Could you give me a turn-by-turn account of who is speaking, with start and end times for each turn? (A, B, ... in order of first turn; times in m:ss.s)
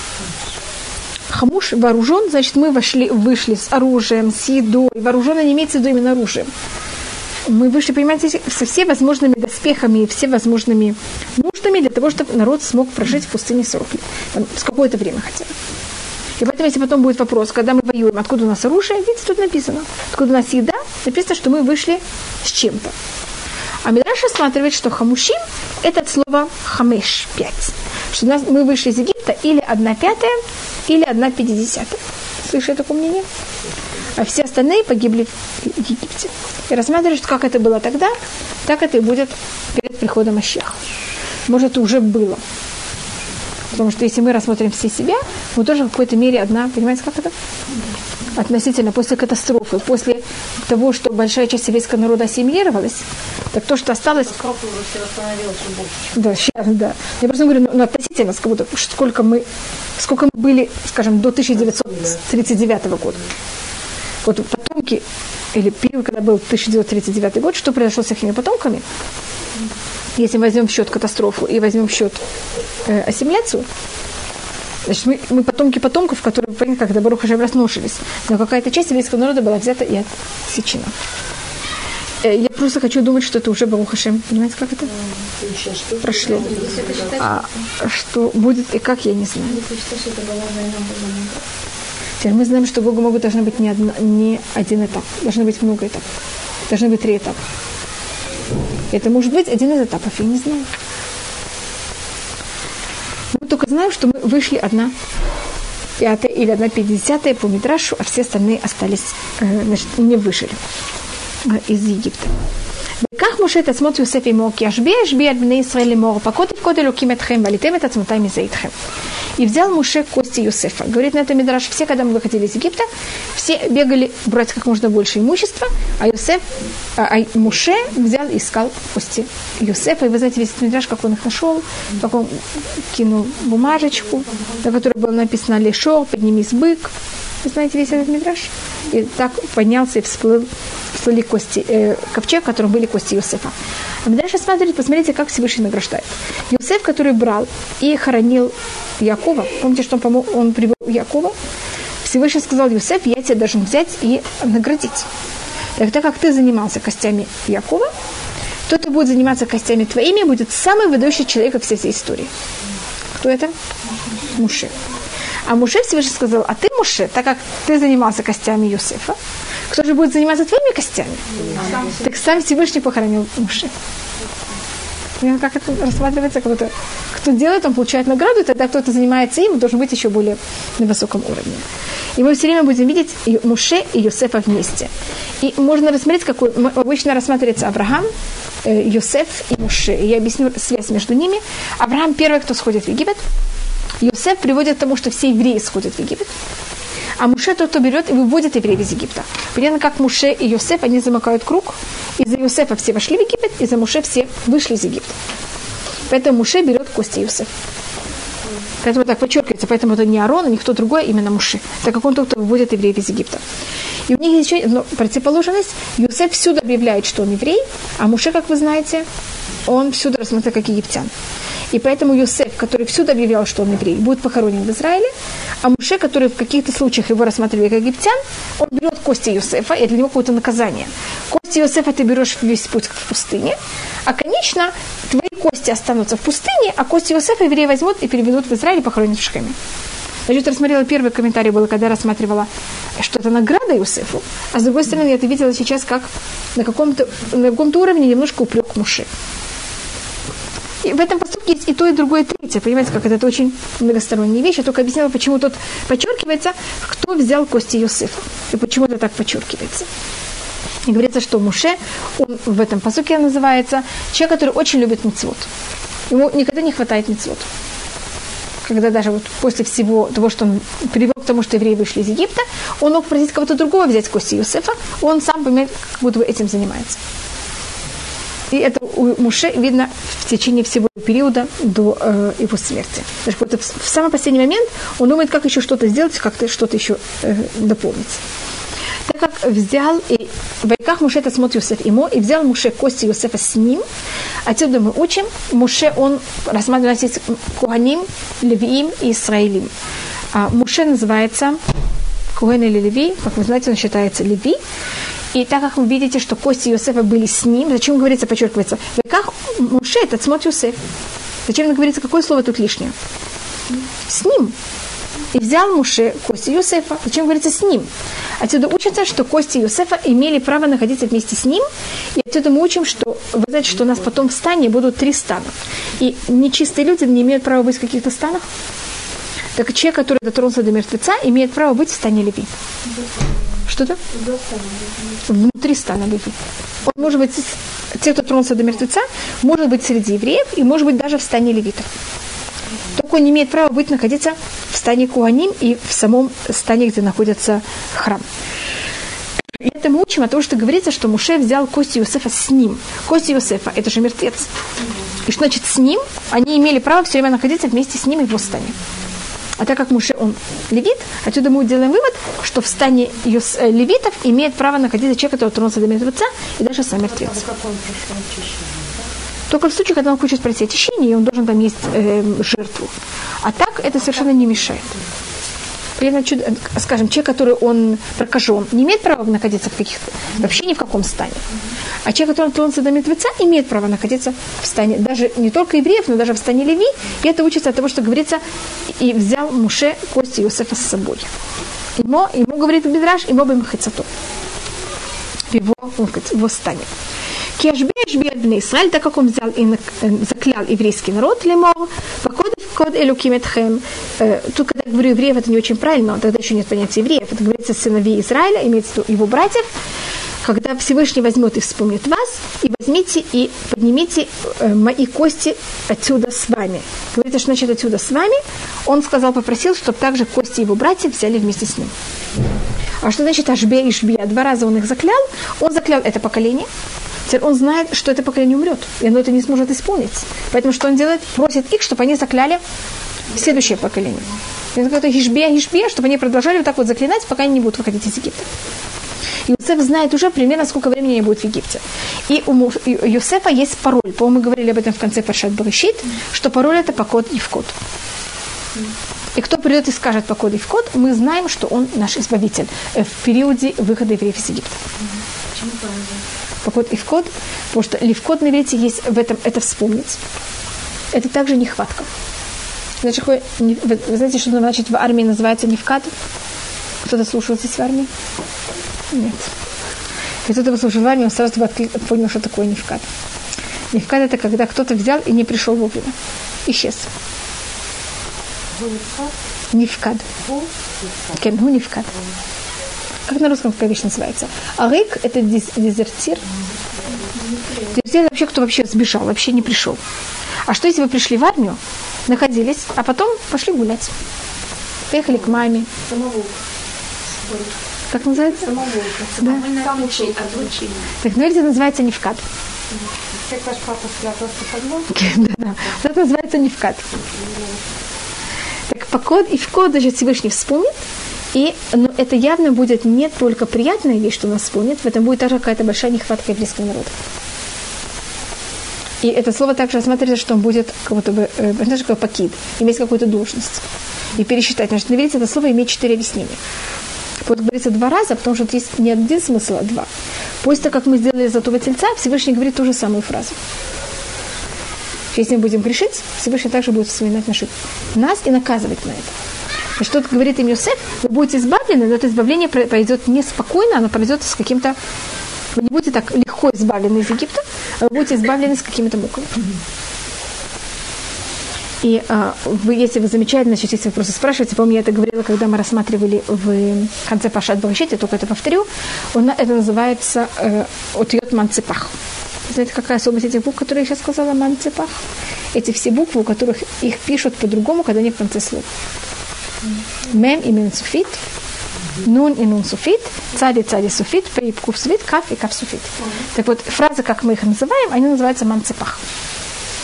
0:01.3-0:06.5 A
0:07.5-0:15.5 A
0:16.4-0:22.9 A
0:23.8-0:33.2 A
0:34.2-0:38.1 A
0:38.6-0:40.8 A
0:41.5-0:42.4 A
0:43.7-0:47.3 A
0:48.3-0:54.3 A
0:54.1-0:56.1 B
0:56.2-0:59.4 A
1:00.0-1:03.2 A
1:04.2-1:08.8 A
1:10.2-1:12.2 A
1:12.8-1:13.6 A
1:14.8-1:20.9 A
1:22.2-1:24.9 A
1:25.4-1:27.2 C
1:26.0-1:26.4 A
1:26.1-1:27.5 B
1:27.2-1:29.6 A
1:29.5-1:31.4 B
1:32.2-1:36.0 A
1:36.7-1:37.4 A
1:38.9-1:40.7 A
1:43.3-1:44.9 A
1:46.0-1:50.6 A
1:51.4-1:52.3 A
1:53.0-1:58.7 A
1:59.4-2:16.9 A
2:17.4-2:23.5 A
2:24.0-2:31.3 A
2:32.0-2:35.1 A
2:35.8-2:37.9 A
2:38.7-2:42.3 A
2:43.2-2:43.5 A
2:44.3-2:44.7 A
2:45.4-2:49.2 A
2:49.7-2:53.7 A
2:51.5-2:52.0 B
2:55.2-3:01.6 A
3:02.2-3:08.1 A
3:08.6-3:13.2 A
3:14.0-3:16.3 A
3:17.2-3:25.2 A
3:26.1-3:27.5 A
3:28.8-3:33.4 A
3:34.1-3:39.0 A
3:39.6-3:41.1 A
3:41.7-3:45.1 A
3:45.6-3:59.6 A
4:00.3-4:09.1 A
4:10.8-4:19.9 A
4:20.8-4:25.5 A
4:26.1-4:27.5 A
4:28.6-4:37.0 A
4:38.5-4:48.2 A
4:49.1-4:53.8 A
4:54.4-4:59.7 A
5:00.3-5:01.6 A
5:02.3-5:04.6 A
5:05.3-5:10.8 A
5:11.4-5:12.9 A
5:14.1-5:14.5 A
5:15.3-5:17.9 A
5:18.4-5:28.4 A
5:29.6-5:32.5 A
5:33.7-5:34.0 A
5:34.1-5:35.2 B
5:35.3-5:41.9 A
5:42.9-5:48.2 A
5:49.6-5:54.5 A
5:55.2-5:58.8 A
5:59.6-6:07.4 A
6:07.1-6:09.0 C
6:09.5-6:12.9 A
6:13.4-6:14.8 A
6:16.0-6:21.4 A
6:22.0-6:28.4 A
6:28.9-6:31.3 A
6:32.0-6:34.1 A
6:35.5-6:36.9 A
6:37.6-6:49.7 A
6:50.4-7:01.9 A
7:03.0-7:06.7 A
7:07.3-7:12.6 A
7:13.3-7:18.5 A
7:19.5-7:27.7 A
7:29.3-7:34.8 A
7:35.6-7:36.2 B
7:36.6-7:40.2 A
7:41.1-7:42.1 A
7:43.0-7:46.1 A
7:47.0-7:48.1 A
7:49.1-7:49.5 A
7:50.4-7:53.0 A
7:53.9-7:56.1 A
7:56.7-7:57.1 A
7:58.7-7:59.3 C
7:59.7-8:00.2 A
8:00.4-8:01.4 C
8:01.3-8:02.1 A
8:03.3-8:06.4 A
8:07.9-8:10.0 A
8:10.7-8:14.1 A
8:15.1-8:15.9 A
8:16.1-8:16.5 B
8:18.1-8:18.7 A
8:18.7-8:21.0 B
8:18.8-8:21.0 C
8:19.4-8:19.6 A
8:21.2-8:22.4 A
8:23.5-8:25.1 C
8:25.1-8:27.0 A
8:28.9-8:31.0 A
8:31.5-8:37.1 A
8:39.2-8:43.8 A
8:44.3-8:46.6 A
8:47.4-8:50.1 A
8:50.6-8:53.6 A
8:55.3-8:59.3 A
9:00.0-9:05.0 A
9:05.7-9:09.5 A
9:12.0-9:22.1 A
9:22.7-9:25.2 A
9:25.7-9:28.9 A
9:30.3-9:31.4 A
9:32.2-9:39.2 A